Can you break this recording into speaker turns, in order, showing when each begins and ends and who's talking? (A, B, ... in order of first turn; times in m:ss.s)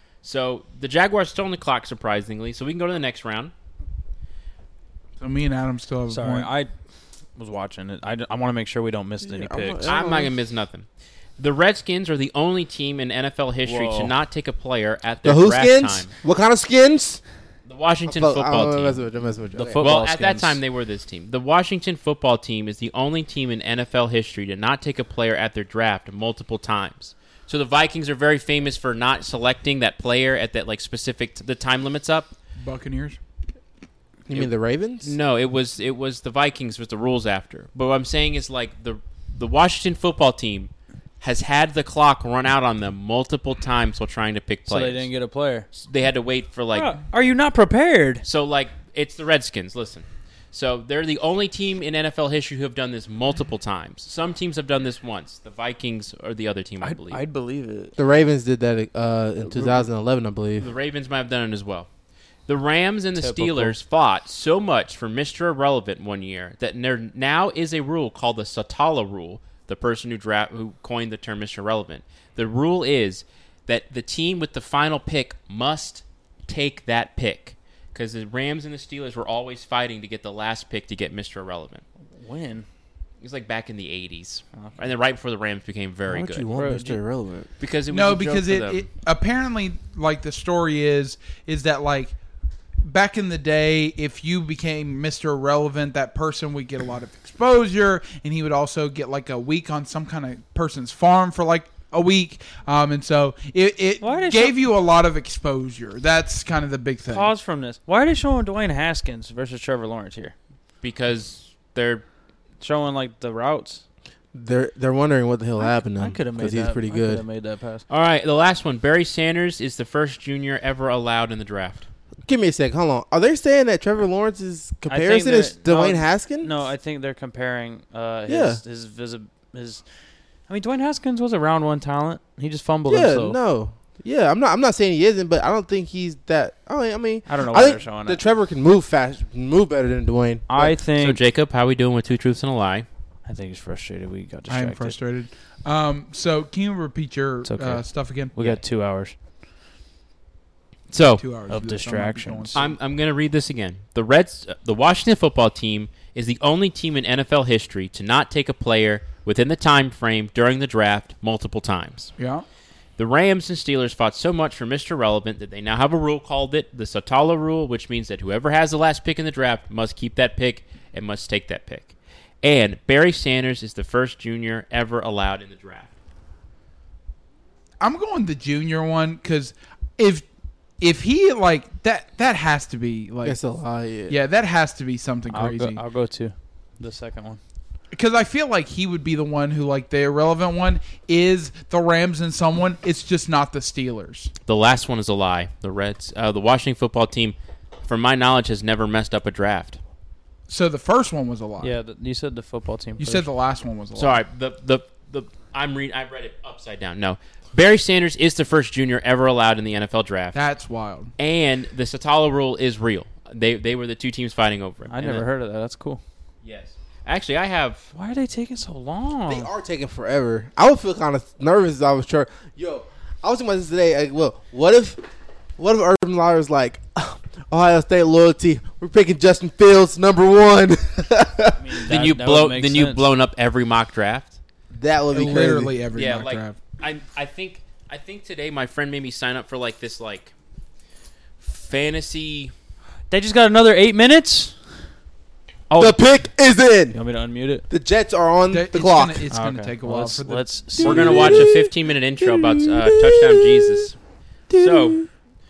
0:00.2-0:03.5 A
0:05.2-0:06.5 B
0:06.1-0:06.7 C
0:07.4-0:09.9 C
0:09.2-0:10.3 D
0:09.8-0:10.9 A
0:11.4-0:16.1 A
0:13.6-0:14.1 C
0:15.2-0:17.2 D
0:17.7-0:19.0 A
0:18.1-0:19.8 D
0:19.5-0:20.6 C
0:19.8-0:32.3 A
0:32.6-0:33.2 B
0:34.3-0:35.2 D
0:35.0-0:45.1 A
0:44.7-0:45.7 C
0:45.7-0:46.9 A
0:46.7-0:48.2 C
0:48.2-0:57.2 A
0:56.8-0:58.0 C
0:58.0-1:00.7 D
1:00.6-1:01.9 A
1:02.5-1:21.8 A
1:03.2-1:03.8 C
1:22.2-1:22.7 C
1:23.2-1:27.0 A
1:26.1-1:27.5 D
1:26.6-1:26.9 C
1:27.6-1:28.9 A
1:27.9-1:32.1 B
1:32.8-1:47.3 B
1:44.0-1:44.6 C
1:47.0-1:50.4 C
1:50.8-1:52.0 A
1:52.6-1:53.8 C
1:54.3-1:57.2 D
1:55.6-1:57.8 C
1:57.9-2:01.9 A
2:02.3-2:06.5 D
2:04.9-2:09.8 C
2:08.3-2:08.6 D
2:10.5-2:13.4 C
2:12.9-2:20.8 D
2:17.3-2:18.2 C
2:20.5-2:21.2 C
2:21.0-2:22.9 A
2:23.2-2:25.0 C
2:24.5-2:28.3 B
2:27.4-2:29.2 C
2:30.9-2:31.2 A
2:31.2-2:32.7 B
2:31.5-2:32.6 C
2:32.6-2:42.1 A
2:42.2-2:42.4 B
2:43.0-2:55.9 A
2:57.8-3:00.3 B
3:00.8-3:03.4 B
3:03.2-3:04.2 D
3:04.1-3:05.8 B
3:05.3-3:07.4 C
3:07.9-3:14.3 B
3:14.5-3:17.4 A
3:17.9-3:19.8 A
3:20.5-3:21.7 B
3:21.6-3:23.3 C
3:23.0-3:24.2 B
3:24.0-3:30.4 A
3:30.3-3:31.1 B
3:31.2-3:35.2 A
3:34.9-3:36.0 C
3:36.4-3:37.9 A
3:37.9-3:39.5 C
3:39.3-3:45.0 D
3:45.6-3:51.7 D
3:51.5-3:53.1 C
3:51.9-3:54.4 A
3:54.7-3:55.7 D
3:55.1-3:56.6 B
3:55.9-4:00.3 A
4:01.4-4:02.5 A
4:03.1-4:04.6 C
4:05.7-4:06.0 C
4:05.8-4:07.0 D
4:06.9-4:07.6 C
4:07.7-4:09.2 D
4:08.5-4:10.4 B
4:09.3-4:11.5 C
4:10.8-4:13.9 D
4:10.8-4:14.0 A
4:14.5-4:15.1 D
4:14.5-4:15.0 A